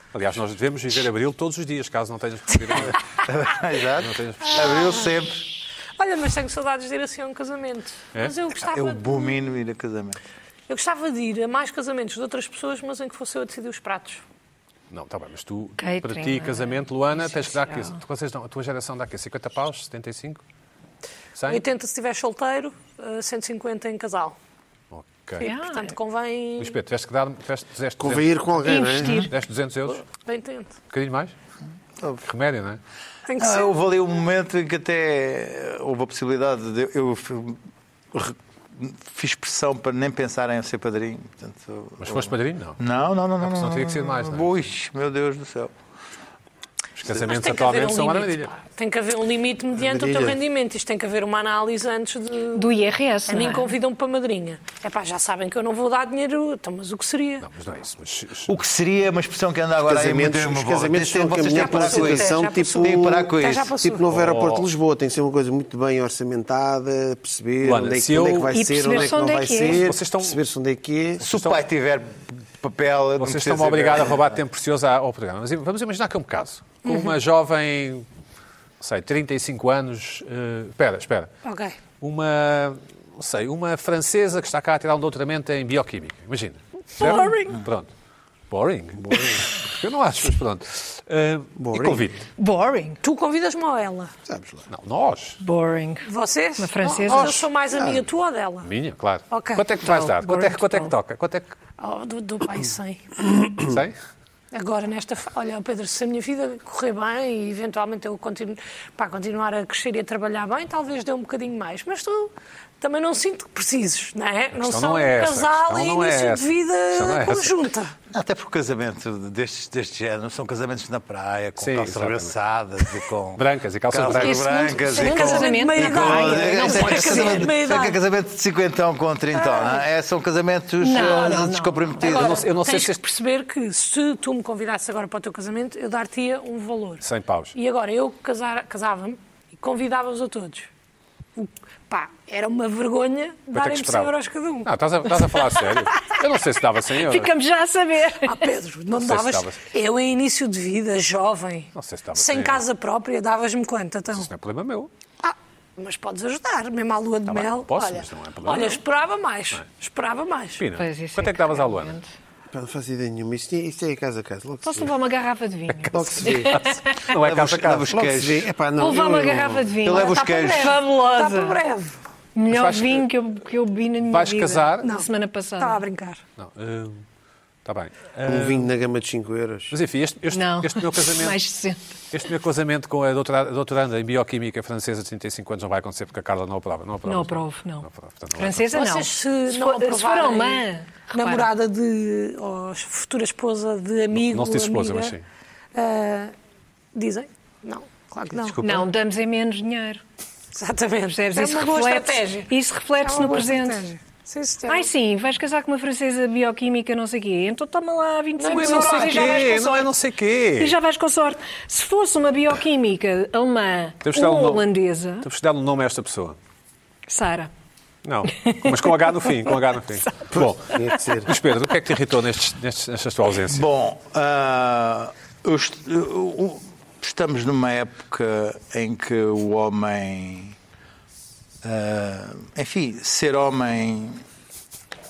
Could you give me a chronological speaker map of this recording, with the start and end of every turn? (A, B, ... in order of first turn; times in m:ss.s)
0:00.1-0:03.0 A
0:02.8-0:05.4 B
0:04.0-0:04.8 A
0:04.6-0:05.1 C
0:06.0-0:09.4 C
0:08.6-0:10.2 B
0:10.7-0:14.2 C
0:14.9-0:20.4 A
0:15.8-0:17.9 D
0:21.4-0:21.6 A
0:21.5-0:24.4 C
0:24.9-0:25.4 A
0:25.4-0:26.8 C
0:25.4-0:26.0 D
0:26.6-0:30.0 A
0:28.0-0:29.2 E
0:28.6-0:29.3 D
0:30.2-0:30.7 C
0:30.9-0:31.3 A
0:32.0-0:32.2 B
0:32.2-0:32.8 A
0:33.3-0:33.7 C
0:33.4-0:37.6 B
0:38.1-0:45.7 B
0:42.0-0:42.8 A
0:43.4-0:44.5 A
0:47.0-0:48.5 A
0:47.2-0:52.7 C
0:49.8-0:50.4 E
0:52.5-0:53.7 D
0:53.3-0:57.4 C
0:57.4-0:58.5 A
0:58.5-1:03.8 B
0:59.8-1:11.3 E
1:01.4-1:04.0 C
1:04.1-1:04.7 A
1:07.6-1:10.4 A
1:08.5-1:09.9 D
1:11.2-1:14.4 B
1:11.2-1:11.6 A
1:13.2-1:18.0 A
1:16.8-1:17.1 C
1:18.8-1:21.3 A
1:21.4-1:21.8 C
1:22.0-1:27.9 A
1:27.0-1:27.6 D
1:28.5-1:32.2 A
1:29.0-1:29.4 E
1:31.6-1:32.1 E
1:32.4-1:33.0 D
1:33.0-1:34.1 C
1:34.3-1:34.6 E
1:34.7-1:35.4 A
1:35.4-1:36.1 D
1:36.0-1:38.7 C
1:36.6-1:37.4 D
1:37.0-1:38.0 E
1:38.6-1:41.5 A
1:39.3-1:39.6 C
1:39.8-1:40.9 D
1:41.8-1:43.1 C
1:43.6-1:44.0 A
1:44.5-1:57.9 C
1:54.5-1:57.6 A
1:58.1-2:12.4 B
2:01.6-2:02.3 A
2:03.4-2:04.4 A
2:04.1-2:07.4 D
2:04.7-2:08.0 C
2:09.3-2:09.8 C
2:10.8-2:11.9 D
2:11.0-2:11.4 C
2:12.0-2:20.7 C
2:12.1-2:13.0 A
2:17.0-2:17.5 A
2:21.4-2:25.7 C
2:23.5-2:24.1 A
2:24.6-2:27.3 A
2:26.9-2:28.4 D
2:28.2-2:34.3 C
2:29.0-2:29.6 A
2:31.7-2:32.6 A
2:34.1-2:34.9 A
2:35.2-2:40.6 C
2:37.3-2:38.8 A
2:40.6-2:42.0 A
2:40.8-2:42.0 D
2:42.5-2:44.9 E
2:44.6-2:47.1 D
2:45.7-2:48.2 A
2:45.9-2:46.5 E
2:46.2-2:46.5 B
2:47.1-2:48.5 B
2:48.0-2:49.8 E
2:48.8-2:51.6 D
2:49.8-2:50.8 B
2:49.9-2:52.0 C
2:52.3-2:55.8 D
2:52.5-2:53.0 A
2:54.1-2:54.9 A
2:54.8-2:56.2 C
2:56.4-2:57.0 A
2:57.6-2:58.7 A
2:58.2-2:59.7 E
2:59.7-3:01.4 A
3:00.3-3:01.8 D
3:02.1-3:08.9 A
3:07.0-3:11.5 D
3:08.7-3:15.1 C
3:14.1-3:15.2 A
3:15.7-3:16.3 C
3:16.9-3:18.6 C
3:18.3-3:18.8 A
3:18.6-3:20.0 D
3:20.5-3:22.5 C
3:21.1-3:23.8 D
3:23.0-3:24.9 C
3:24.7-3:29.9 D
3:28.4-3:29.6 C
3:28.5-3:30.7 A
3:30.6-3:35.2 D
3:34.0-3:34.6 A
3:35.2-3:36.4 A
3:37.1-3:37.5 D
3:38.0-3:43.6 A
3:38.3-3:39.5 D
3:40.3-3:41.3 E
3:43.5-3:50.6 B
3:51.6-3:54.2 B